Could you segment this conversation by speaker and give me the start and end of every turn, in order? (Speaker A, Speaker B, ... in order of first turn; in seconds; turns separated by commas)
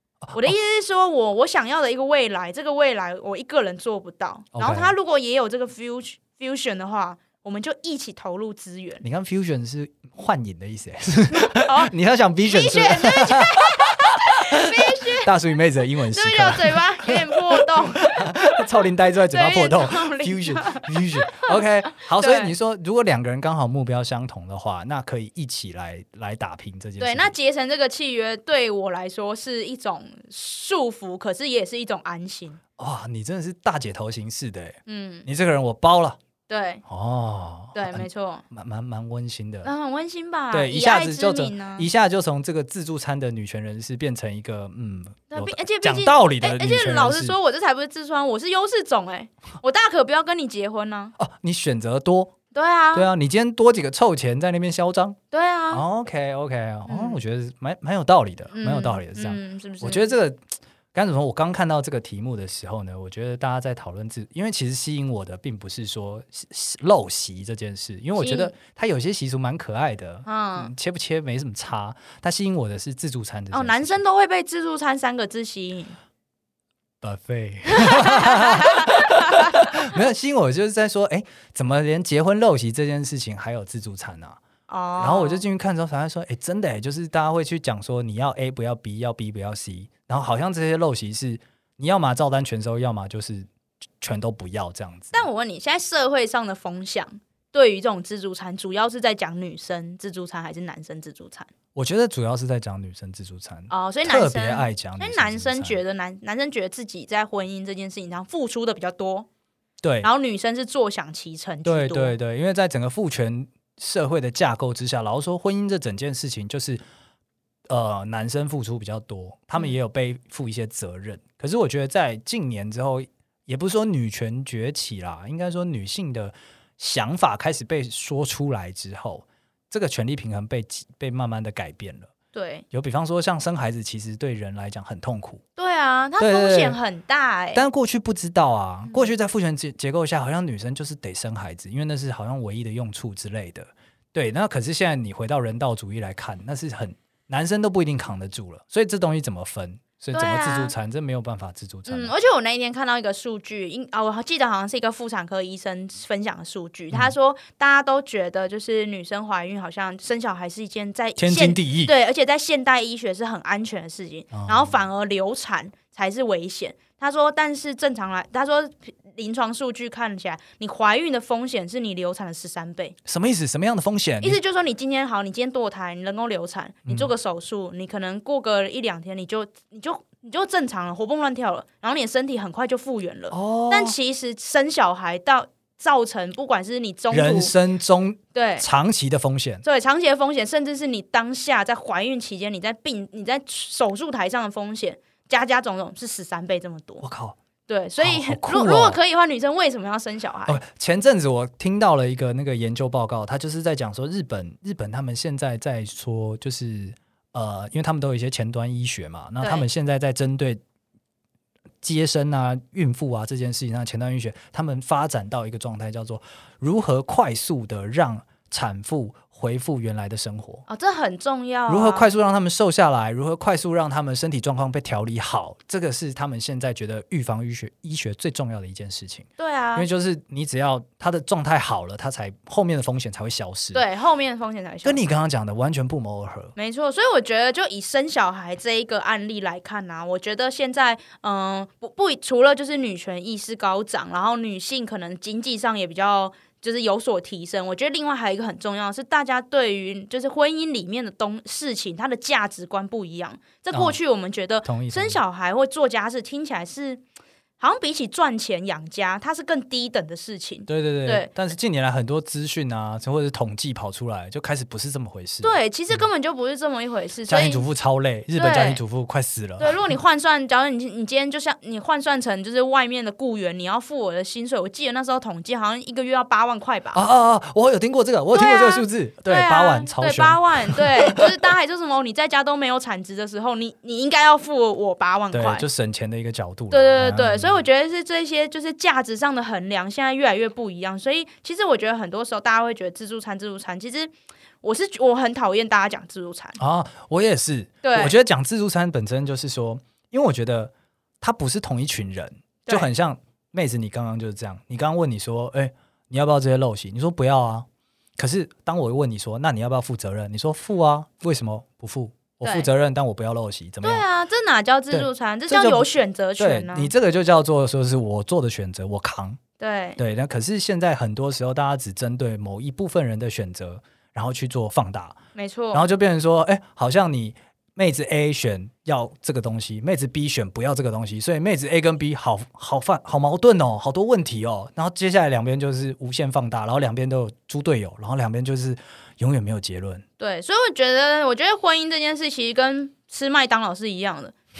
Speaker A: 0.2-0.6, Speaker B: 0.3-9.0, Speaker A: 4.5-4.9, Speaker A: 9.0-27.3, Speaker B: 11.5-11.9, Speaker B: 12.5-15.3, Speaker B: 16.1-18.5, Speaker B: 19.3-22.5, Speaker B: 27.0-32.6, Speaker A: 32.8-36.2, Speaker B: 34.9-35.3, Speaker B: 36.5-36.8, Speaker A: 36.9-39.7, Speaker B: 37.7-38.4, Speaker B: 39.6-41.9, Speaker A: 40.5-47.4, Speaker B: 45.3-51.1, Speaker A: 51.2-52.4, Speaker B: 52.5-53.1, Speaker A: 52.9-55.2, Speaker B: 55.3-55.8, Speaker A: 55.7-74.0, Speaker B: 56.9-57.2, Speaker B: 58.5-60.1, Speaker B: 68.2-68.5, Speaker B: 70.3-70.7, Speaker B: 73.5-76.0, Speaker A: 77.0-84.4, Speaker B: 77.7-79.8, Speaker B: 84.7-85.4, Speaker A: 85.0-93.5, Speaker A: 94.0-95.2, Speaker B: 95.1-101.5, Speaker A: 101.8-105.8, Speaker B: 103.7-109.3, Speaker A: 109.8-110.1, Speaker B: 110.0-112.2, Speaker A: 111.7-116.8, Speaker A: 117.7-132.1, Speaker B: 132.3-132.7, Speaker A: 132.7-135.4, Speaker B: 135.6-137.6, Speaker A: 136.2-136.8, Speaker A: 137.6-152.2, Speaker B: 150.1-150.7, Speaker B: 151.9-173.0, Speaker A: 161.2-161.9, Speaker A: 164.3-164.8, Speaker A: 173.1-174.4, Speaker B: 174.2-187.5, Speaker A: 176.9-177.1, Speaker A: 183.3-184.0, Speaker A: 187.1-189.6, Speaker B: 188.3-188.7, Speaker B: 189.6-197.0, Speaker A: 197.0-197.4, Speaker B: 197.7-200.6, Speaker A: 198.0-199.0, Speaker A: 200.5-210.6, Speaker B: 209.4-209.7, Speaker A: 211.8-220.6, Speaker B: 220.7-222.1, Speaker A: 221.7-233.8, Speaker B: 229.4-229.9, Speaker B: 233.7-235.0, Speaker A: 234.8-236.6, Speaker B: 236.6-257.0, Speaker A: 253.7-254.0, Speaker A: 254.6-255.2, Speaker B: 257.6-261.3, Speaker A: 260.7-266.0, Speaker B: 265.4-267.6, Speaker A: 267.3-269.8, Speaker B: 268.4-268.8, Speaker B: 269.6-277.0, Speaker A: 276.9-281.3, Speaker B: 278.3-285.6, Speaker A: 285.3-287.6, Speaker B: 286.7-296.6, Speaker A: 296.6-314.1, Speaker B: 297.8-298.2, Speaker B: 312.4-312.7, Speaker B: 313.8-316.9, Speaker A: 314.9-319.4, Speaker B: 319.6-320.0, Speaker A: 320.0-325.2, Speaker B: 325.4-325.8, Speaker A: 325.7-340.0, Speaker B: 340.2-344.4